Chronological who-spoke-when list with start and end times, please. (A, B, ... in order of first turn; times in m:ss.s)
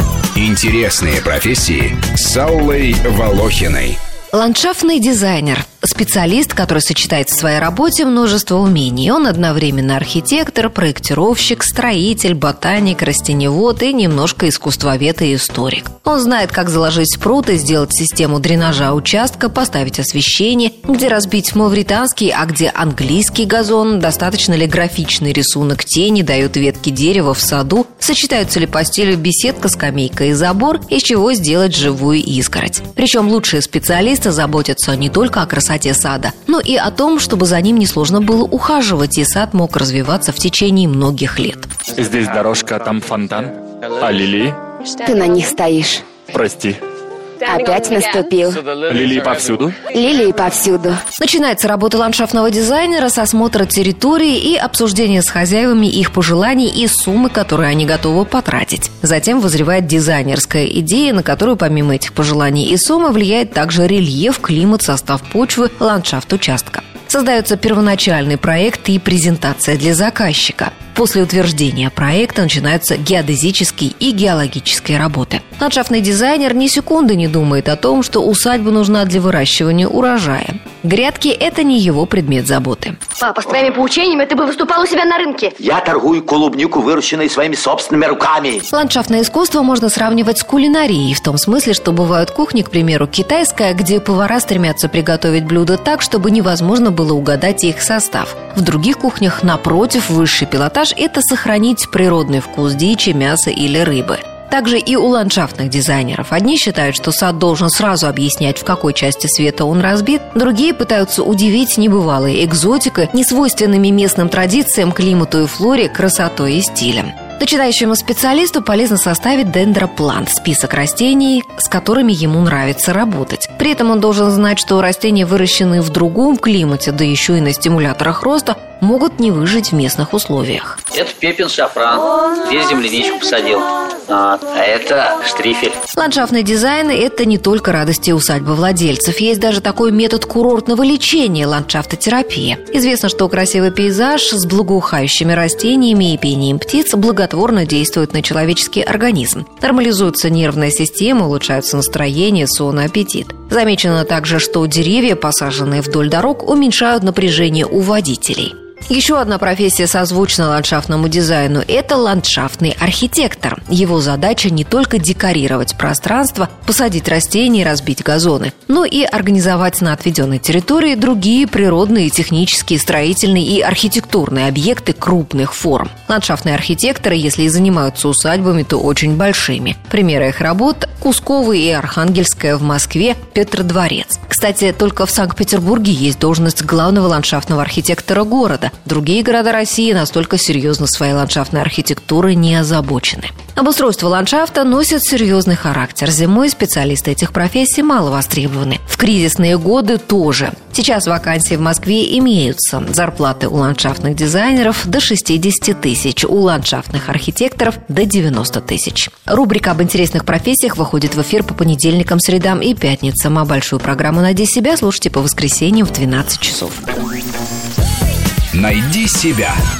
0:00.4-0:04.0 A
0:04.3-0:41.7 B
0:42.0-0:43.5 C
0:44.0-0:44.6 C
0:45.0-0:46.1 D
0:46.3-0:46.8 C
0:47.4-0:48.6 D
0:48.9-0:49.8 C
0:49.9-0:51.0 D
0:51.2-1:23.0 B
1:23.2-1:25.5 E
1:25.6-1:28.7 F
1:28.7-2:10.8 B
2:10.9-2:15.8 G
2:15.9-3:36.8 B
3:38.5-3:39.6 A